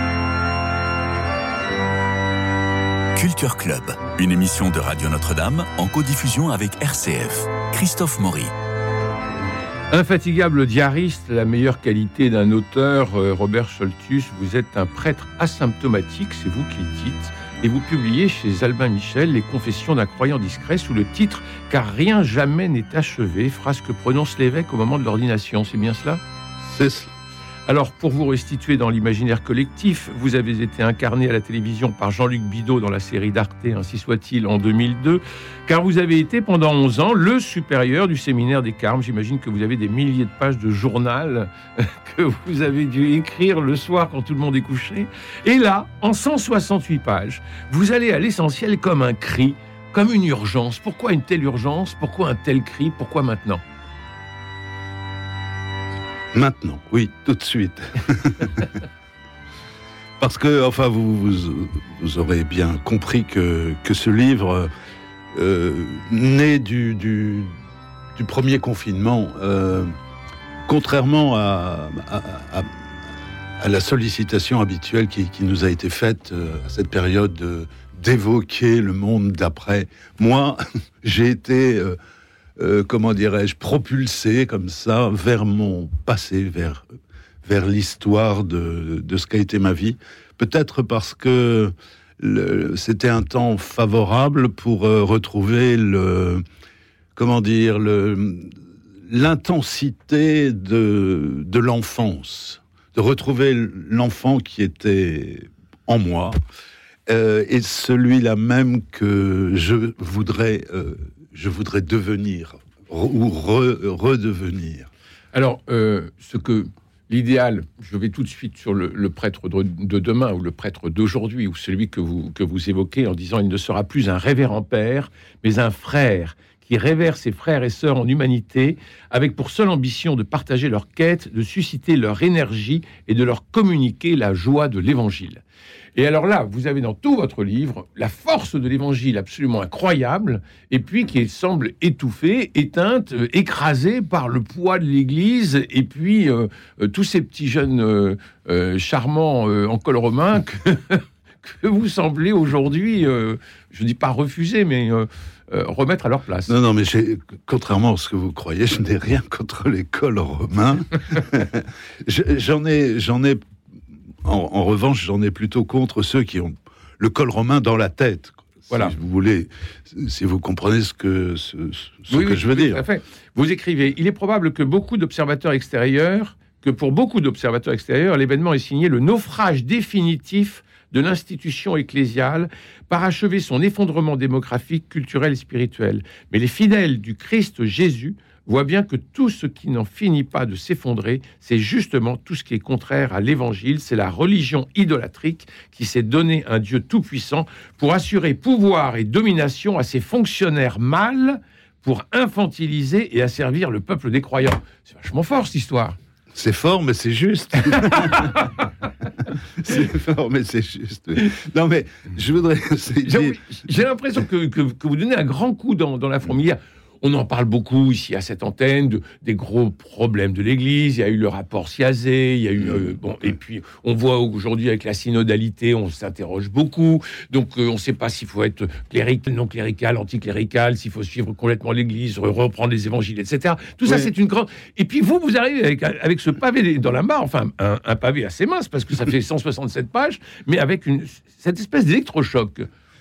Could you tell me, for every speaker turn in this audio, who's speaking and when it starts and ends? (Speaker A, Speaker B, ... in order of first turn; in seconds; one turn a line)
Speaker A: 3.1-8.5
Speaker B: 9.9-26.2
Speaker C: 26.6-27.1
Speaker B: 27.7-53.6
Speaker C: 56.3-58.8
Speaker C: 60.2-64.7
Speaker C: 65.3-67.5
Speaker C: 68.2-69.9
Speaker C: 70.7-82.0
Speaker C: 82.6-86.9
Speaker C: 87.4-96.4
Speaker C: 97.2-98.5
Speaker C: 99.0-106.3
Speaker C: 107.1-114.9
Speaker B: 115.3-135.4
Speaker B: 135.9-156.5
Speaker C: 156.5-163.4
Speaker C: 164.2-172.8
Speaker B: 168.7-168.9
Speaker B: 172.1-206.0
Speaker C: 206.3-208.5
Speaker B: 207.8-208.3
Speaker C: 209.6-213.4
Speaker B: 213.0-242.7
Speaker C: 233.8-234.1